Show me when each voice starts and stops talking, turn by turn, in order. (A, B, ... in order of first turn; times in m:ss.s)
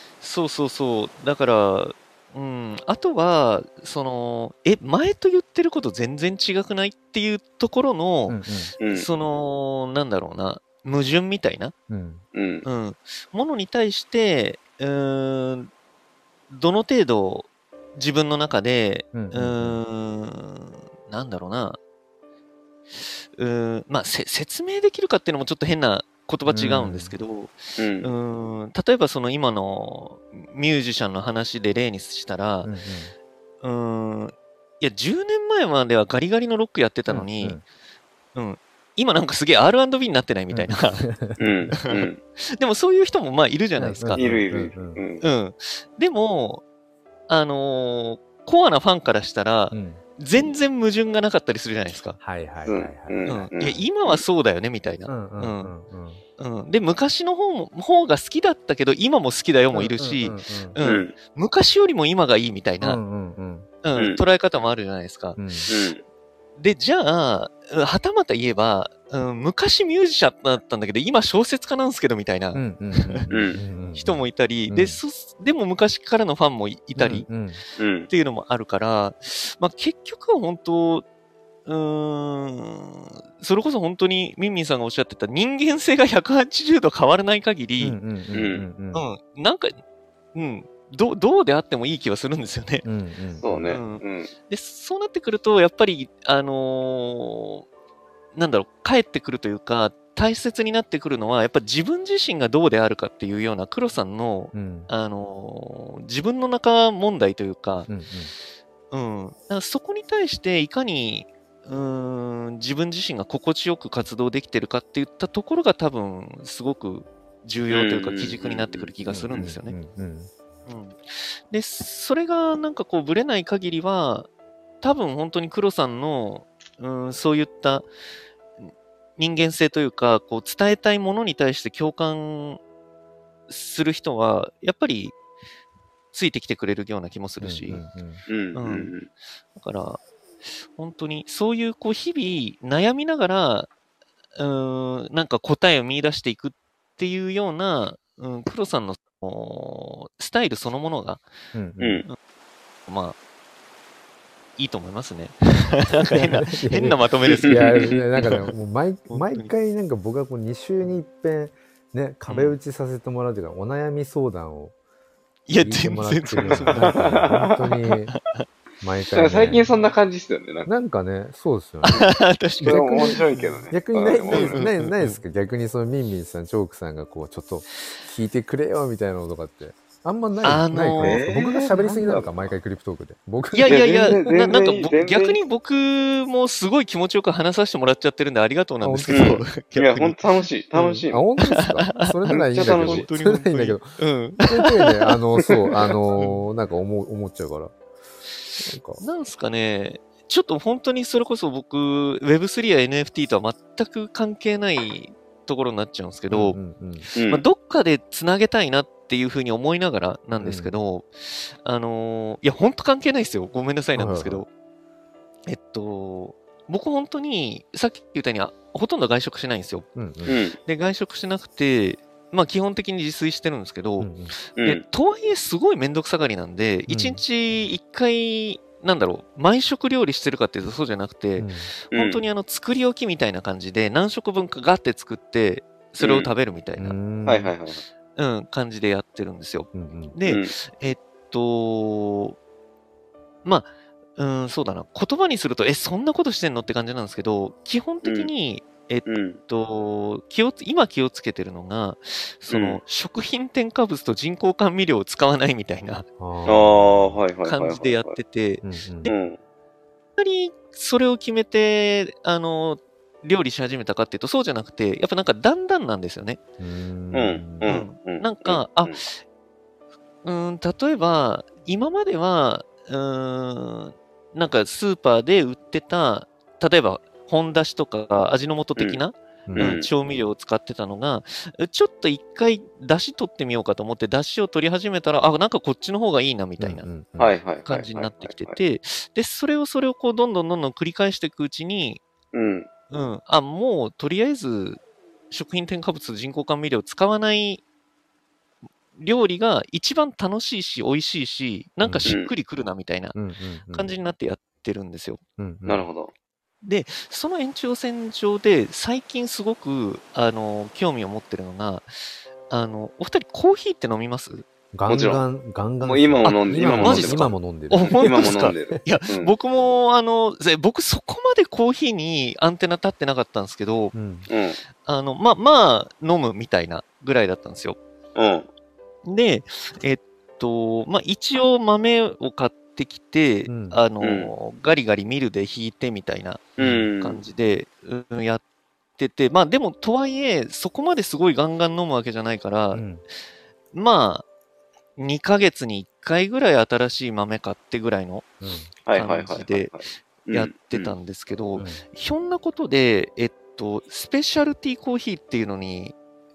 0:00.2-0:11.7 A
0:08.3-0:08.7 B
0:08.8-0:09.1 C
0:11.9-0:12.2 B
0:12.3-0:12.7 C
0:12.6-0:15.7 A
0:16.5-0:21.8 A
0:19.1-0:19.8 B
0:23.0-0:32.7 A
0:26.5-0:27.2 B
0:27.8-0:28.1 C
0:32.6-0:33.1 B
0:33.6-0:37.6 A
0:37.1-0:37.6 B
0:38.4-0:41.1 A
0:40.5-0:41.7 B
0:41.4-0:42.2 C
0:41.8-0:44.2 A
0:43.8-0:45.0 B
0:44.1-0:45.2 C
0:45.2-0:46.6 A
0:47.3-0:52.2 A
0:49.7-0:50.0 B
0:52.2-0:53.5 B
0:52.7-0:54.2 C
0:53.3-0:55.7 A
0:55.1-0:56.2 B
0:56.4-1:03.0 A
0:59.7-1:00.8 B
1:00.8-1:01.2 C
1:02.8-1:03.7 B
1:03.8-1:05.5 A
1:04.0-1:04.2 C
1:05.4-1:05.7 B
1:05.7-1:06.0 C
1:06.6-1:13.3 A
1:12.6-1:15.0 B
1:13.3-1:13.6 C
1:14.0-1:17.3 A
1:17.0-1:17.6 B
1:17.8-1:18.1 C
1:18.1-1:21.0 A
1:21.7-1:28.0 A
1:27.8-1:29.1 B
1:28.3-1:28.6 C
1:28.9-1:29.8 A
1:30.3-1:32.8 A
1:32.8-1:33.8 B
1:33.4-1:34.3 C
1:33.7-1:37.6 A
1:38.4-1:47.9 A
1:44.5-1:44.9 B
1:47.9-1:48.3 B
1:48.9-1:59.8 A
1:57.7-1:59.5 C
1:59.1-2:00.3 B
2:00.7-2:04.3 A
2:04.8-2:07.8 A
2:08.6-2:12.6 A
2:13.5-2:15.2 A
2:16.1-2:17.8 A
2:17.4-2:18.2 B
2:18.3-2:19.1 C
2:18.6-2:18.9 A
2:19.6-2:20.0 A
2:20.7-2:23.7 A
2:24.4-2:31.2 A
2:31.5-2:32.1 B
2:31.8-2:32.0 C
2:32.9-2:33.2 A
2:34.6-2:38.5 A
2:35.9-2:44.7 B
2:37.3-2:38.0 C
2:39.1-2:39.5 A
2:42.3-2:42.6 A
2:45.5-2:47.3 A
2:45.6-2:48.1 B
2:46.4-2:47.5 C
2:47.9-2:48.5 A
2:48.8-2:49.7 B
2:49.1-2:50.7 C
2:50.7-3:03.8 B
2:51.9-2:54.6 C
2:51.9-2:53.6 A
2:54.3-2:55.2 A
3:00.4-3:01.3 A
3:01.0-3:02.4 C
3:03.5-3:10.2 A
3:03.7-3:05.4 C
3:08.8-3:09.4 B
3:09.1-3:11.2 C
3:10.8-3:15.1 A
3:11.1-3:17.7 B
3:12.3-3:13.1 C
3:16.2-3:16.4 A
3:18.6-3:19.0 B
3:19.0-3:34.5 A
3:26.3-3:27.1 B
3:27.2-3:27.4 C
3:30.4-3:30.7 B
3:34.0-3:34.4 B
3:35.5-3:39.9 A
3:40.0-3:40.4 B
3:40.3-3:40.6 C
3:40.6-3:57.0 A
3:44.0-3:44.4 B
3:46.9-3:47.2 B
3:51.4-3:51.7 B
3:51.9-3:52.2 C
3:56.0-3:56.3 C
3:56.8-3:57.5 B
3:57.3-3:57.8 C
3:58.2-4:02.4 A
3:59.7-4:00.2 B
4:03.4-4:16.1 A
4:08.0-4:08.3 C
4:09.1-4:09.4 C
4:12.5-4:12.8 C
4:16.2-4:17.2 B
4:16.5-4:18.2 C
4:17.4-4:19.1 A
4:18.6-4:19.1 B
4:19.1-4:19.4 C
4:20.2-4:26.4 A
4:26.6-4:27.8 B
4:27.1-4:29.0 C
4:27.6-4:29.2 A
4:30.2-4:46.9 A
4:38.2-4:39.0 C
4:39.5-4:39.8 B
4:39.6-4:39.9 C
4:46.6-4:47.4 B
4:47.2-4:48.6 C
4:47.6-4:52.0 A
4:52.3-4:52.7 C
4:52.9-4:57.6 A
4:59.0-5:05.2 A
5:01.8-5:02.1 B
5:03.2-5:03.9 B
5:05.4-5:05.8 B
5:05.6-5:06.1 C
5:06.6-5:11.9 A
5:12.5-5:14.5 A
5:14.7-5:18.8 B
5:14.9-5:15.2 C
5:15.8-5:17.4 C
5:16.2-5:24.0 A
5:17.9-5:19.3 C
5:23.9-5:24.3 B
5:24.3-5:24.6 C
5:24.8-5:27.8 A
5:28.2-5:28.5 C
5:29.0-5:38.4 A
5:33.5-5:33.8 B
5:34.0-5:34.3 C
5:36.6-5:37.2 C
5:36.6-5:36.9 B
5:39.0-5:42.8 A
5:42.7-5:43.0 B
5:43.7-5:44.2 A
5:45.0-5:48.3 A
5:48.4-5:48.7 B
5:48.9-5:50.9 C
5:48.9-5:56.0 A
5:51.6-5:51.8 B